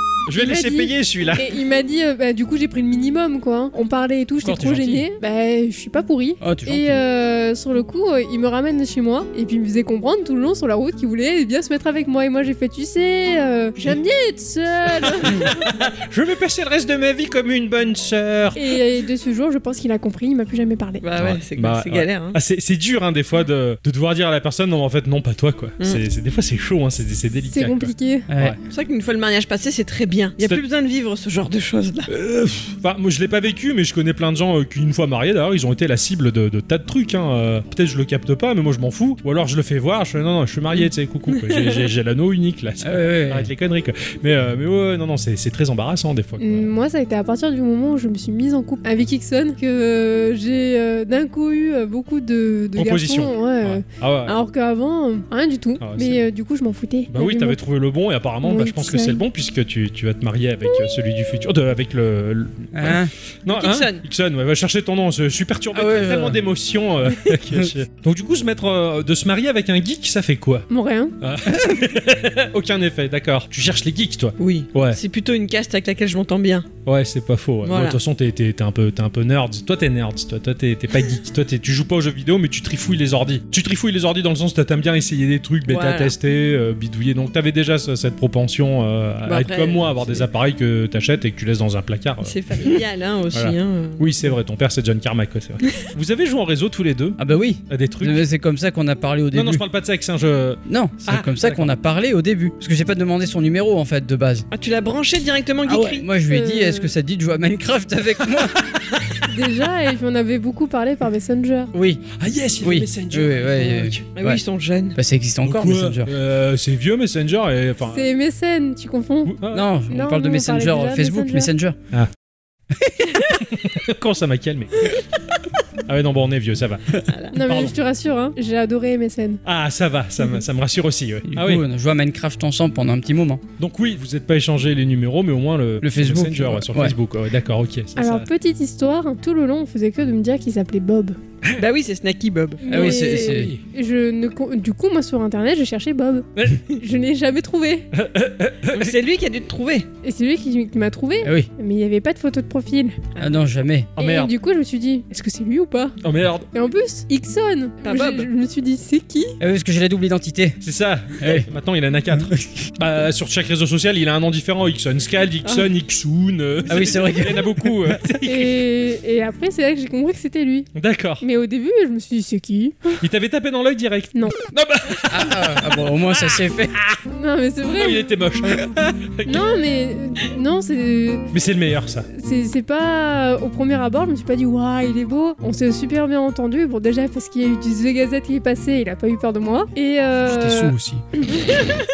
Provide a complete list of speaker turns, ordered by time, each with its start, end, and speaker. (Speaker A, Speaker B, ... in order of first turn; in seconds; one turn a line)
Speaker A: 0.3-1.5
Speaker B: 0.4-15.5
Speaker C: 4.4-5.0
Speaker C: 6.4-7.0
Speaker A: 15.0-18.8
Speaker B: 18.5-21.0
Speaker D: 21.0-22.4
Speaker A: 21.2-28.6
Speaker B: 27.5-28.3
Speaker C: 28.3-28.6
Speaker D: 28.7-32.1
Speaker A: 32.1-46.7
Speaker C: 42.8-43.5
Speaker B: 46.4-57.6
Speaker A: 52.7-54.4
Speaker A: 55.8-56.2
Speaker A: 57.1-70.7
Speaker B: 58.4-59.2
Speaker C: 62.7-63.1
Speaker D: 63.5-64.0
Speaker C: 65.7-66.4
Speaker B: 70.7-71.1
Speaker A: 71.2-75.0
Speaker C: 71.5-71.8
Speaker D: 74.4-76.7
Speaker A: 76.8-92.3
Speaker D: 77.6-78.0
Speaker D: 85.7-86.1
Speaker D: 89.2-90.2
Speaker D: 92.2-94.1
Speaker A: 93.3-98.3
Speaker C: 97.2-99.6
Speaker A: 99.3-101.7
Speaker C: 100.7-104.5
Speaker D: 104.5-106.0
Speaker C: 105.6-108.6
Speaker B: 106.3-106.9
Speaker A: 108.7-109.0
Speaker B: 109.3-111.7
Speaker C: 111.7-112.1
Speaker A: 112.2-114.0
Speaker C: 112.6-114.4
Speaker D: 114.1-115.0
Speaker C: 114.9-116.1
Speaker A: 115.4-118.1
Speaker B: 117.9-119.3
Speaker A: 119.2-119.7
Speaker C: 119.5-121.8
Speaker B: 119.9-121.5
Speaker C: 122.7-123.3
Speaker A: 123.4-124.9
Speaker A: 125.8-127.7
Speaker D: 127.1-127.4
Speaker B: 127.3-129.4
Speaker A: 129.4-131.6
Speaker C: 131.3-133.4
Speaker A: 133.6-138.3
Speaker C: 135.8-136.9
Speaker B: 138.0-141.2
Speaker D: 141.6-142.7
Speaker B: 142.6-147.9
Speaker C: 142.7-143.5
Speaker A: 142.7-143.6
Speaker A: 146.3-146.6
Speaker A: 147.9-149.0
Speaker D: 148.7-149.9
Speaker B: 150.0-153.0
Speaker C: 151.2-151.5
Speaker C: 153.2-153.9
Speaker A: 154.0-154.3
Speaker B: 154.0-155.9
Speaker A: 156.0-156.5
Speaker B: 156.5-159.3
Speaker D: 157.8-158.3
Speaker C: 159.4-160.6
Speaker A: 160.6-168.6
Speaker C: 161.2-161.5
Speaker C: 162.1-162.7
Speaker C: 166.7-168.0
Speaker B: 168.2-170.7
Speaker A: 170.7-171.2
Speaker B: 171.2-173.0
Speaker A: 173.0-177.0
Speaker C: 175.1-176.8
Speaker B: 177.1-178.0
Speaker A: 177.7-179.5
Speaker B: 179.2-181.3
Speaker A: 181.3-182.1
Speaker B: 182.1-191.6
Speaker C: 190.2-191.0